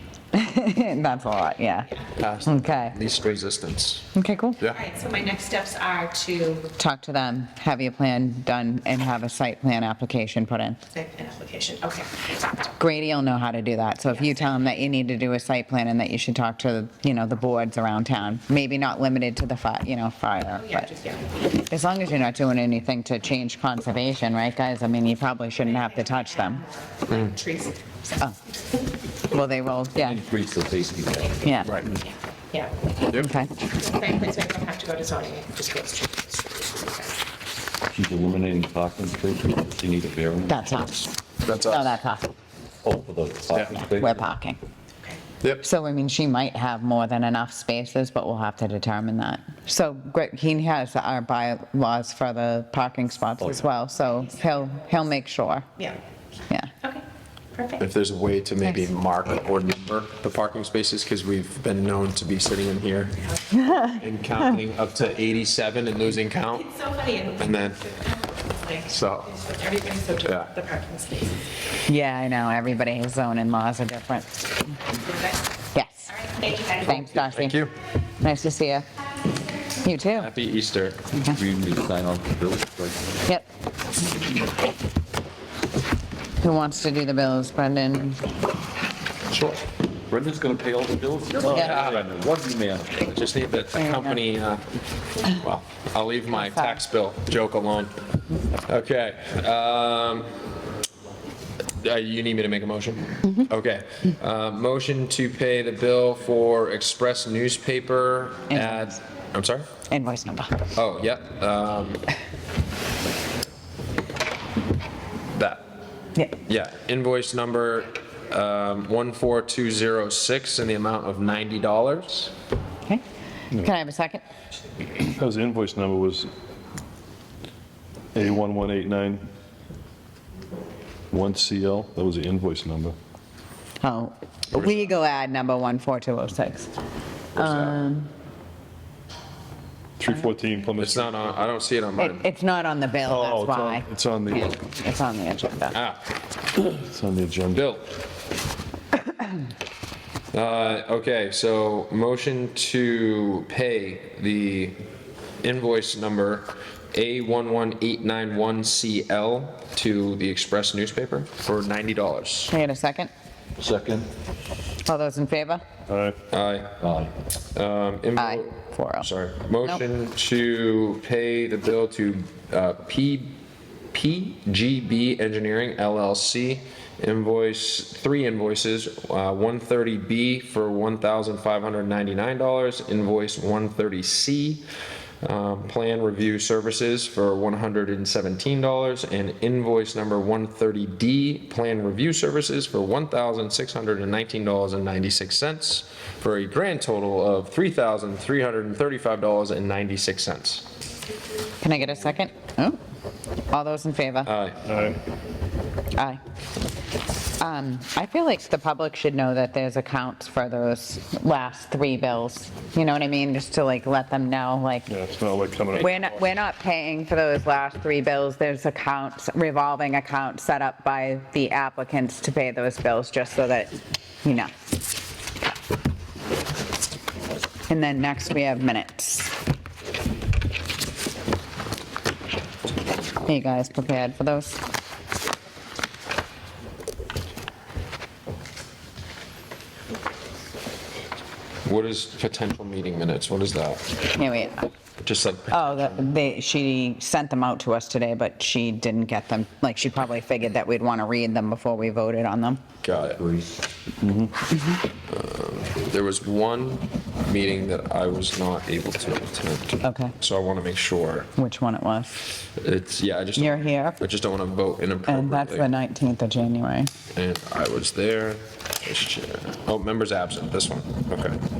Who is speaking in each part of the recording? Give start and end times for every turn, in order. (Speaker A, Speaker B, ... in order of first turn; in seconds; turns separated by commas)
Speaker A: 0.3-1.9, Speaker B: 2.2-4.0, Speaker A: 2.4-3.0, Speaker A: 4.1-4.7, Speaker C: 4.7-6.7, Speaker A: 6.8-10.8, Speaker C: 10.9-12.1, Speaker A: 12.8-20.9, Speaker C: 20.6-21.2, Speaker A: 21.6-26.6, Speaker C: 25.6-28.3, Speaker A: 29.3-30.2, Speaker D: 30.0-31.8, Speaker A: 31.4-31.8, Speaker C: 32.5-32.8, Speaker A: 33.1-33.5, Speaker C: 33.7-37.1, Speaker D: 37.9-40.9, Speaker A: 40.5-42.3, Speaker B: 41.4-41.9, Speaker D: 42.8-44.2, Speaker A: 43.7-44.6, Speaker A: 45.6-55.7, Speaker C: 56.8-57.8, Speaker B: 57.8-66.7, Speaker C: 66.6-71.3, Speaker B: 67.4-67.8, Speaker B: 68.9-69.3, Speaker B: 70.2-70.5, Speaker A: 71.8-74.5, Speaker C: 75.0-75.4, Speaker A: 75.7-76.1, Speaker C: 76.1-77.2, Speaker A: 76.8-77.6, Speaker B: 77.0-77.7, Speaker A: 78.2-78.8, Speaker A: 79.7-80.3, Speaker B: 80.2-81.0, Speaker A: 81.1-81.4, Speaker D: 81.3-83.2, Speaker A: 86.4-88.2, Speaker B: 89.3-89.6, Speaker D: 90.1-93.1, Speaker A: 91.5-91.8, Speaker B: 91.5-92.0, Speaker B: 93.0-94.6, Speaker B: 95.3-97.9, Speaker B: 98.7-100.3, Speaker B: 101.8-109.7, Speaker A: 108.5-109.0, Speaker A: 109.9-110.6, Speaker B: 110.7-112.0, Speaker B: 115.3-115.6, Speaker B: 116.5-122.3, Speaker A: 123.5-124.2, Speaker E: 125.0-126.3, Speaker E: 128.1-129.3, Speaker E: 131.1-132.9, Speaker A: 133.8-136.7, Speaker B: 137.3-137.8, Speaker A: 137.4-138.1, Speaker E: 140.0-141.3, Speaker B: 140.8-142.2, Speaker A: 142.0-145.8, Speaker E: 143.1-144.5, Speaker B: 145.7-146.0, Speaker E: 146.6-147.6, Speaker B: 147.5-147.9, Speaker B: 150.3-154.8, Speaker B: 155.4-162.5, Speaker A: 162.5-163.1, Speaker D: 163.6-164.1, Speaker A: 164.8-165.6, Speaker E: 165.9-166.2, Speaker B: 166.3-166.8, Speaker D: 166.8-167.1, Speaker B: 167.5-173.3, Speaker A: 168.2-169.1, Speaker B: 173.9-184.6, Speaker B: 185.2-200.7, Speaker A: 201.6-202.8, Speaker A: 203.5-204.3, Speaker B: 204.2-204.6, Speaker E: 204.6-205.0, Speaker A: 207.4-214.9, Speaker E: 214.9-216.0, Speaker A: 215.7-224.5, Speaker A: 227.7-229.4, Speaker A: 233.2-234.6, Speaker B: 241.6-244.0, Speaker A: 244.1-244.7, Speaker B: 245.0-246.0, Speaker A: 245.5-252.6, Speaker B: 252.8-253.2, Speaker D: 253.2-254.3, Speaker B: 255.1-261.3, Speaker A: 259.8-260.1, Speaker A: 261.4-262.3, Speaker B: 262.6-265.7, Speaker A: 263.4-264.0, Speaker A: 265.1-266.9, Speaker B: 267.1-271.4